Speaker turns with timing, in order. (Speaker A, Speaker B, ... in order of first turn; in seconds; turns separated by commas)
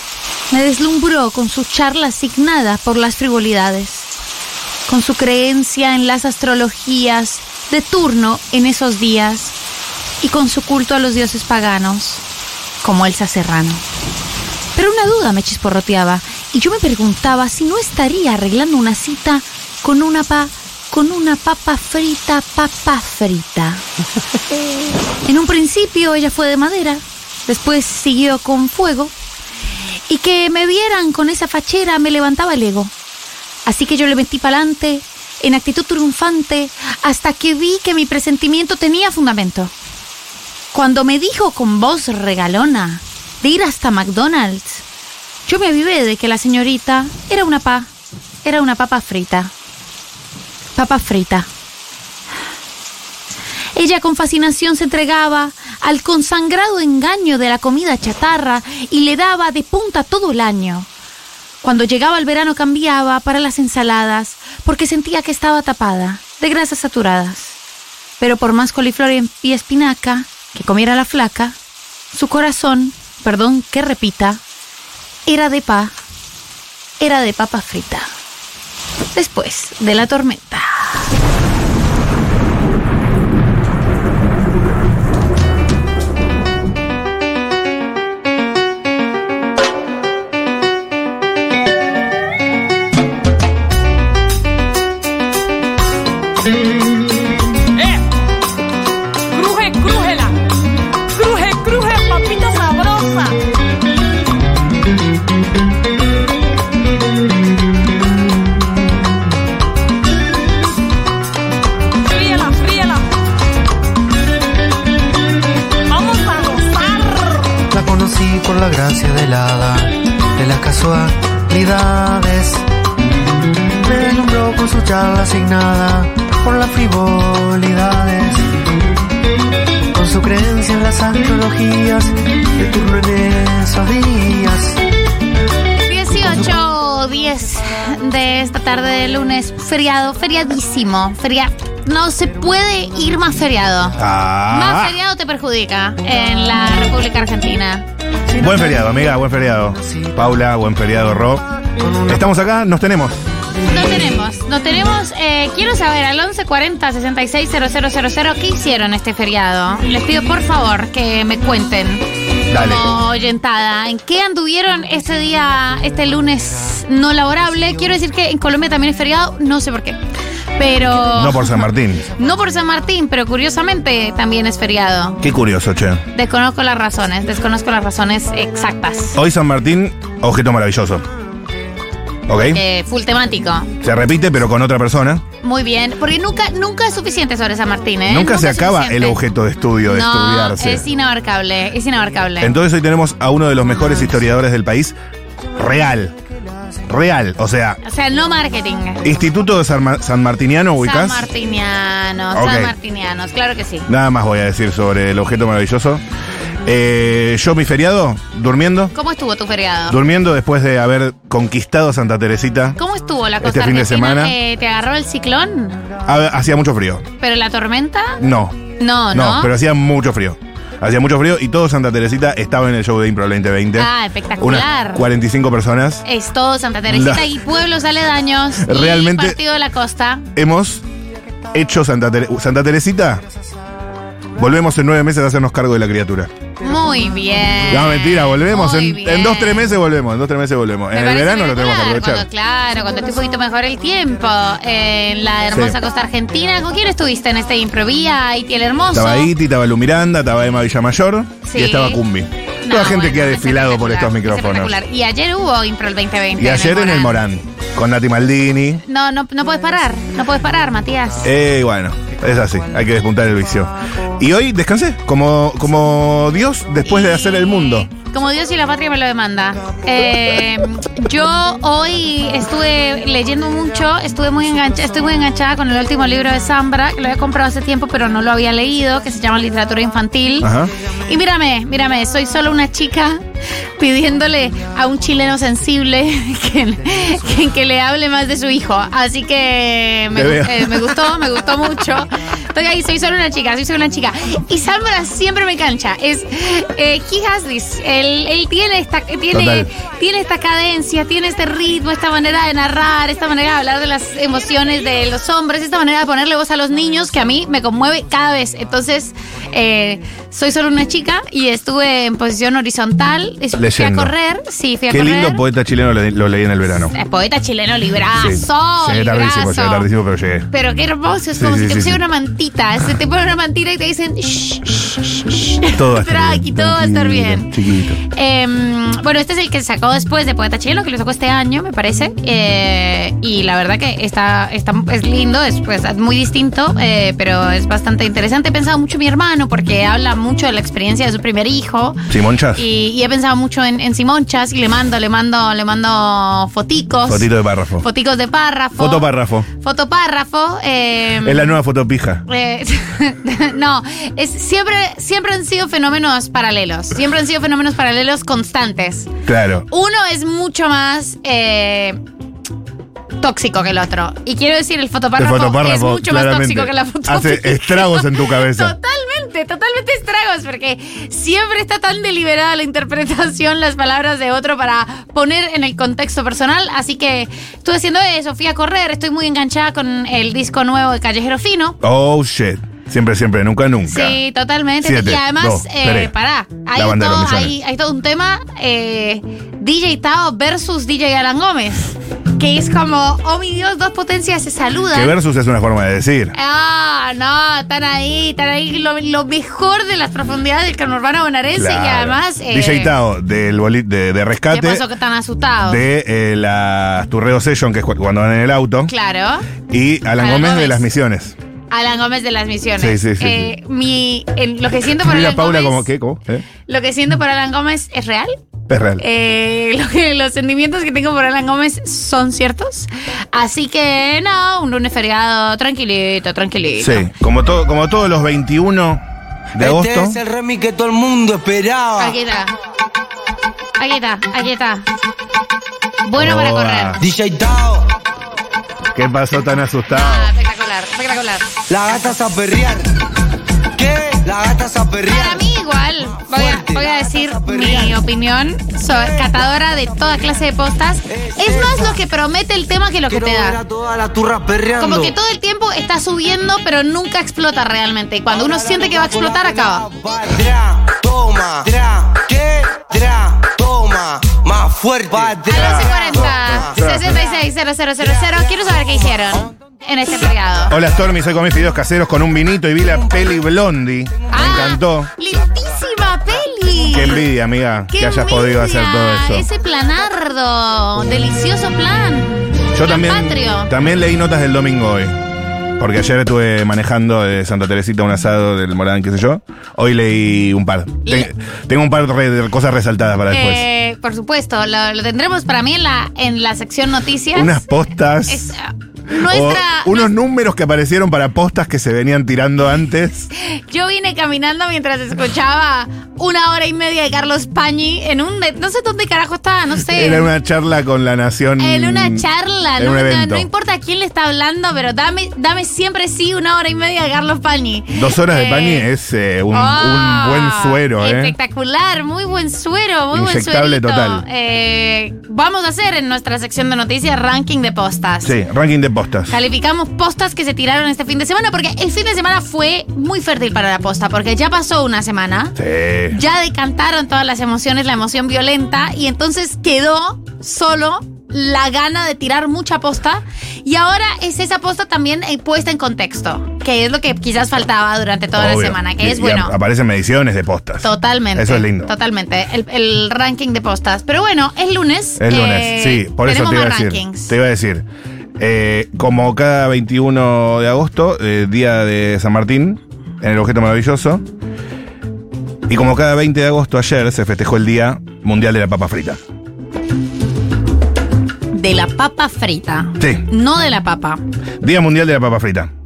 Speaker A: 0.5-4.1, Speaker A: 4.9-9.6, Speaker A: 10.2-12.2, Speaker A: 12.8-13.8, Speaker A: 14.8-23.8, Speaker A: 25.2-29.1, Speaker A: 30.1-32.9, Speaker A: 33.7-39.7, Speaker A: 40.7-44.8, Speaker A: 45.5-47.9, Speaker A: 48.4-49.5, Speaker A: 50.8-51.5, Speaker A: 53.8-60.9, Speaker A: 61.6-67.6, Speaker A: 68.2-71.6, Speaker A: 72.1-74.4, Speaker A: 75.3-75.9, Speaker A: 77.0-78.1, Speaker A: 79.2-81.1, Speaker B: 99.3-100.3, Speaker B: 101.1-103.3, Speaker B: 112.1-113.0, Speaker B: 115.9-117.5, Speaker C: 117.7-122.7, Speaker C: 123.8-128.5, Speaker C: 129.9-134.8, Speaker A: 135.8-147.9, Speaker D: 144.0-145.0, Speaker C: 148.3-148.7, Speaker D: 148.4-151.4, Speaker C: 151.7-152.2, Speaker D: 152.1-153.2, Speaker A: 153.7-170.0, Speaker D: 162.5-162.8, Speaker A: 170.6-175.2, Speaker D: 171.1-172.1, Speaker D: 175.2-176.0, Speaker A: 176.1-179.2, Speaker D: 179.2-181.1, Speaker D: 182.3-182.6, Speaker A: 182.4-183.7, Speaker D: 183.8-185.2, Speaker A: 185.4-189.2, Speaker D: 188.1-190.9, Speaker A: 189.9-192.6, Speaker D: 192.4-195.0, Speaker D: 195.6-196.2, Speaker D: 196.9-197.8, Speaker A: 197.8-199.1, Speaker D: 199.0-201.3, Speaker A: 200.8-203.9, Speaker D: 202.3-202.7, Speaker D: 203.9-206.0, Speaker D: 206.7-208.9, Speaker A: 208.9-210.0, Speaker D: 209.9-212.8, Speaker A: 212.8-215.9, Speaker D: 213.4-214.4, Speaker D: 216.1-217.1, Speaker A: 217.2-218.2, Speaker D: 218.2-218.6, Speaker A: 218.8-219.5, Speaker D: 219.1-226.0, Speaker A: 223.8-225.1, Speaker A: 226.1-230.3, Speaker D: 226.9-227.3, Speaker D: 228.6-229.4, Speaker D: 230.3-230.8, Speaker D: 231.5-233.2, Speaker D: 234.4-236.3, Speaker A: 236.6-239.7, Speaker D: 237.7-242.3, Speaker A: 240.9-249.3, Speaker D: 245.5-245.8, Speaker D: 248.9-254.8, Speaker A: 251.4-252.0, Speaker A: 252.7-257.2, Speaker D: 256.4-258.8, Speaker A: 258.9-261.3, Speaker D: 261.2-267.9, Speaker A: 266.8-280.5, Speaker D: 280.4-280.7, Speaker A: 281.1-283.2, Speaker A: 283.8-315.4, Speaker D: 290.1-290.9, Speaker D: 299.3-299.7, Speaker D: 313.6-314.1, Speaker D: 314.9-316.9, Speaker A: 316.9-319.9, Speaker D: 318.2-320.5, Speaker A: 320.5-327.5, Speaker D: 321.4-322.0, Speaker D: 325.7-328.0, Speaker A: 328.1-342.0, Speaker D: 342.1-342.6, Speaker A: 342.6-347.3, Speaker D: 347.1-347.9, Speaker A: 347.8-351.6, Speaker D: 348.8-349.5, Speaker D: 351.2-352.2, Speaker A: 352.3-359.1, Speaker D: 359.3-359.7, Speaker A: 359.7-362.0, Speaker A: 363.2-381.8, Speaker D: 365.2-368.8, Speaker D: 381.8-384.2, Speaker A: 383.9-395.1, Speaker D: 384.8-386.1, Speaker D: 386.8-387.5, Speaker D: 394.9-396.4, Speaker A: 396.3-402.9, Speaker D: 401.6-404.9, Speaker A: 404.5-405.8, Speaker D: 405.6-408.9, Speaker A: 408.9-409.5, Speaker D: 409.7-411.4, Speaker A: 410.2-410.9, Speaker A: 411.7-415.9, Speaker D: 412.8-413.5, Speaker D: 414.8-416.5, Speaker A: 416.7-418.4, Speaker D: 418.7-419.0, Speaker A: 419.0-427.1, Speaker D: 426.8-430.2, Speaker E: 429.6-432.2, Speaker A: 432.0-432.5, Speaker A: 433.8-434.9, Speaker A: 436.0-437.0, Speaker D: 436.2-437.0, Speaker E: 437.0-437.9, Speaker D: 438.9-440.3, Speaker A: 439.9-441.5, Speaker E: 441.7-442.9, Speaker E: 443.8-445.5, Speaker A: 445.1-453.6, Speaker E: 446.2-448.0, Speaker E: 449.0-449.4, Speaker E: 451.1-452.0, Speaker E: 453.1-455.2, Speaker A: 454.8-459.9, Speaker E: 458.3-466.7, Speaker A: 465.5-470.7, Speaker D: 465.5-467.2, Speaker D: 470.7-475.1, Speaker A: 474.3-477.2, Speaker D: 476.9-479.5, Speaker A: 477.9-483.7, Speaker D: 482.7-485.2, Speaker D: 485.8-493.6, Speaker A: 493.3-497.8, Speaker D: 497.4-498.6, Speaker A: 498.3-500.1, Speaker D: 499.2-503.3, Speaker A: 503.4-510.3, Speaker D: 509.8-512.2, Speaker A: 511.6-518.9, Speaker D: 512.8-513.5, Speaker D: 517.9-521.4, Speaker A: 519.5-528.3, Speaker D: 523.1-524.2, Speaker D: 528.2-529.4, Speaker A: 529.3-535.6, Speaker D: 535.6-536.2, Speaker A: 536.1-549.5, Speaker D: 548.4-551.9, Speaker A: 550.8-557.3, Speaker D: 555.2-557.9, Speaker D: 558.4-564.2, Speaker D: 565.7-569.2, Speaker A: 571.5-574.2, Speaker D: 573.0-573.3, Speaker D: 574.6-575.7